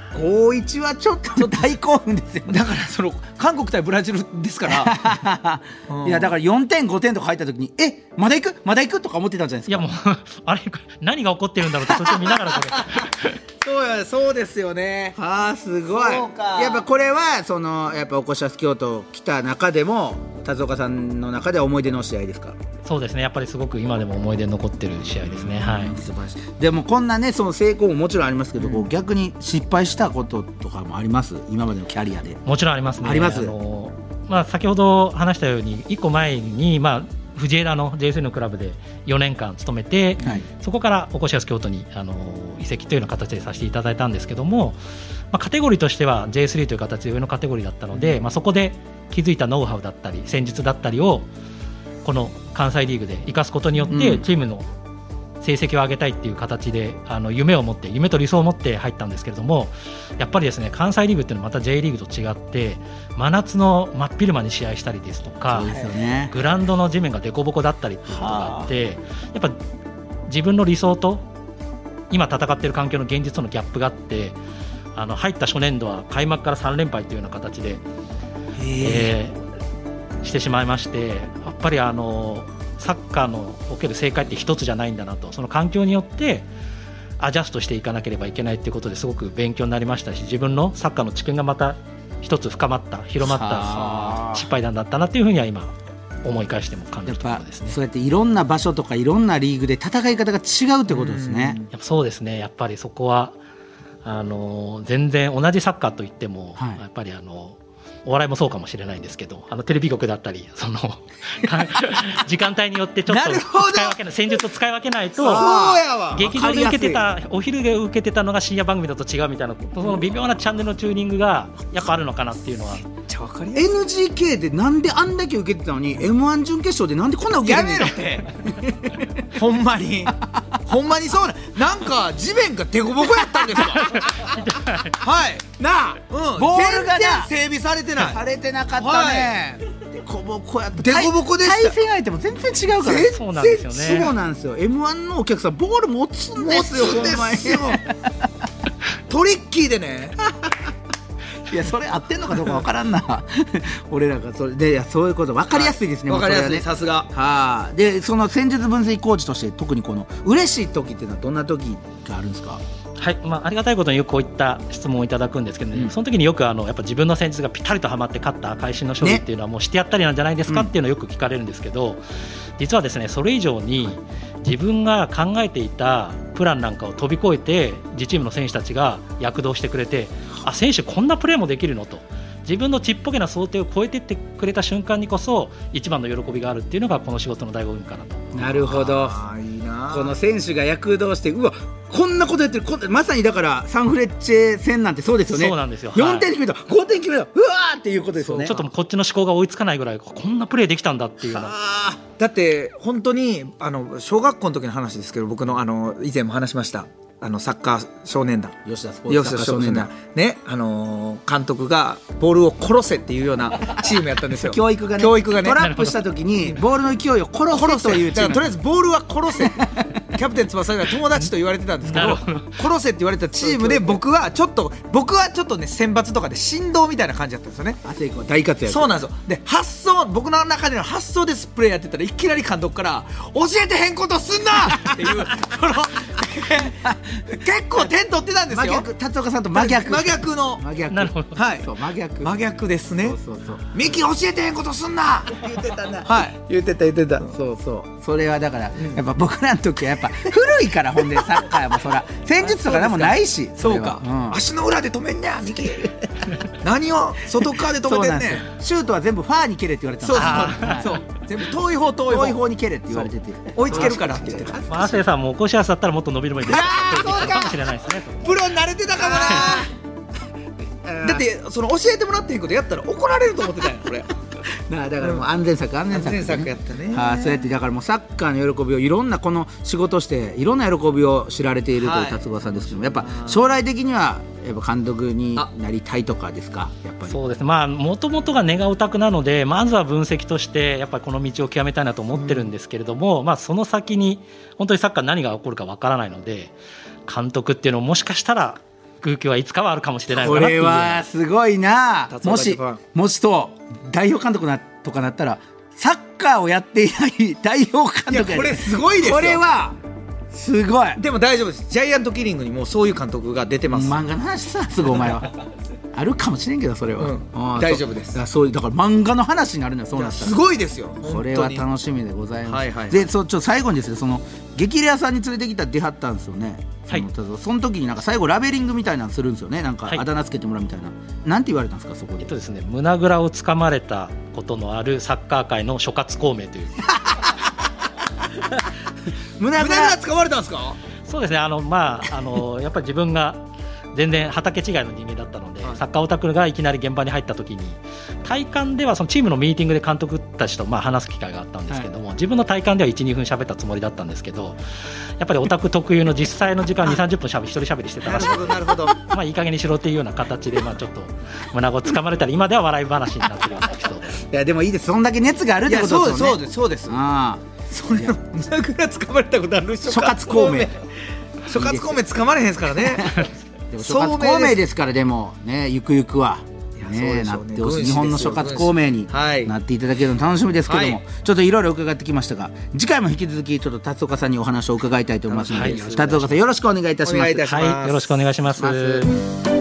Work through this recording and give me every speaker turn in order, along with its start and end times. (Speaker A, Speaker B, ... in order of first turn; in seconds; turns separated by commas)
Speaker A: 0.1-2.6, Speaker B: 2.5-5.1, Speaker A: 4.7-9.9, Speaker B: 5.9-6.3, Speaker C: 9.7-13.4, Speaker B: 13.6-15.2, Speaker A: 15.2-22.6, Speaker B: 15.9-16.8, Speaker C: 22.9-26.0, Speaker A: 25.3-32.4, Speaker B: 28.6-28.9, Speaker C: 32.5-44.8, Speaker A: 33.0-33.5, Speaker C: 45.3-51.3, Speaker C: 52.0-54.7, Speaker A: 53.9-54.2, Speaker C: 55.4-65.7, Speaker A: 65.5-66.4, Speaker C: 66.3-69.6, Speaker A: 68.2-68.5, Speaker C: 70.3-71.2, Speaker C: 72.1-74.4, Speaker C: 75.0-77.8, Speaker B: 78.6-79.1, Speaker C: 78.8-79.4, Speaker C: 80.2-86.5, Speaker C: 87.2-95.7, Speaker A: 93.2-94.5, Speaker C: 96.2-97.8, Speaker A: 97.1-101.6, Speaker B: 100.9-101.7, Speaker C: 101.7-103.4, Speaker C: 104.0-115.5, Speaker A: 106.6-106.8, Speaker B: 113.1-114.0, Speaker A: 115.2-117.1, Speaker B: 115.2-116.2, Speaker C: 116.2-122.8, Speaker B: 122.9-123.7, Speaker A: 123.5-129.2, Speaker B: 127.4-128.3, Speaker B: 129.3-134.3, Speaker A: 133.4-134.0, Speaker C: 133.9-135.0, Speaker B: 134.9-138.2, Speaker A: 135.6-137.3, Speaker A: 138.0-148.3, Speaker B: 138.8-139.4, Speaker B: 140.8-141.8, Speaker B: 142.8-143.2, Speaker C: 143.0-144.1, Speaker B: 146.4-147.9, Speaker B: 149.1-150.2, Speaker A: 151.5-162.6, Speaker B: 155.5-157.1, Speaker C: 163.0-172.0, Speaker C: 172.6-188.9, Speaker A: 188.3-189.2, Speaker B: 188.7-190.1, Speaker A: 189.9-198.6, Speaker C: 195.3-196.3, Speaker B: 198.2-198.7, Speaker C: 198.4-201.6, Speaker A: 201.3-202.0, Speaker B: 202.1-208.6, Speaker A: 208.7-209.9, Speaker B: 209.1-215.6, Speaker A: 214.3-218.5, Speaker C: 215.6-216.1, Speaker B: 217.5-227.8, Speaker A: 219.4-220.0, Speaker C: 221.9-222.6, Speaker A: 223.4-224.0, Speaker A: 227.8-228.9, Speaker B: 228.7-238.8, Speaker A: 234.8-235.1, Speaker A: 236.8-237.4, Speaker A: 238.5-242.3, Speaker B: 239.5-240.6, Speaker C: 240.9-241.4, Speaker B: 241.3-241.7, Speaker B: 242.2-243.2, Speaker A: 243.0-243.8, Speaker B: 243.7-247.3, Speaker A: 245.4-246.1, Speaker A: 247.2-254.4, Speaker B: 252.4-258.4, Speaker A: 257.7-261.0, Speaker B: 260.0-264.6, Speaker C: 260.2-260.9, Speaker A: 262.1-265.0, Speaker C: 264.7-268.3, Speaker A: 266.5-267.6, Speaker B: 266.6-267.5, Speaker B: 268.2-269.7, Speaker A: 269.0-269.7, Speaker A: 270.8-271.3, Speaker B: 271.0-274.1, Speaker A: 274.5-287.2, Speaker B: 275.9-277.3, Speaker B: 281.8-283.4, Speaker C: 287.1-296.5, Speaker B: 292.1-292.5, Speaker C: 297.1-301.1, Speaker A: 300.1-309.8, Speaker B: 302.1-302.8, Speaker B: 308.1-309.4, Speaker A: 310.3-311.0, Speaker B: 311.0-314.0, Speaker A: 313.7-315.3, Speaker A: 315.9-320.4, Speaker B: 317.0-318.2, Speaker B: 319.9-321.6, Speaker A: 321.0-332.3, Speaker B: 322.5-323.1, Speaker C: 332.2-336.9, Speaker A: 336.9-337.5, Speaker A: 339.4-340.0, Speaker B: 339.5-340.8, Speaker C: 341.1-354.6, Speaker C: 355.2-364.2, Speaker B: 358.1-359.0, Speaker A: 364.2-368.1, Speaker B: 365.7-367.0, Speaker B: 367.7-370.9, Speaker A: 369.9-370.7, Speaker B: 371.4-373.3, Speaker A: 371.5-372.0, Speaker A: 372.8-387.5, Speaker B: 373.8-374.6, Speaker B: 376.8-379.5, Speaker B: 380.7-381.0, Speaker B: 385.3-386.2, Speaker C: 385.5-386.4, Speaker B: 387.0-388.1, Speaker C: 387.5-389.1, Speaker A: 388.6-389.0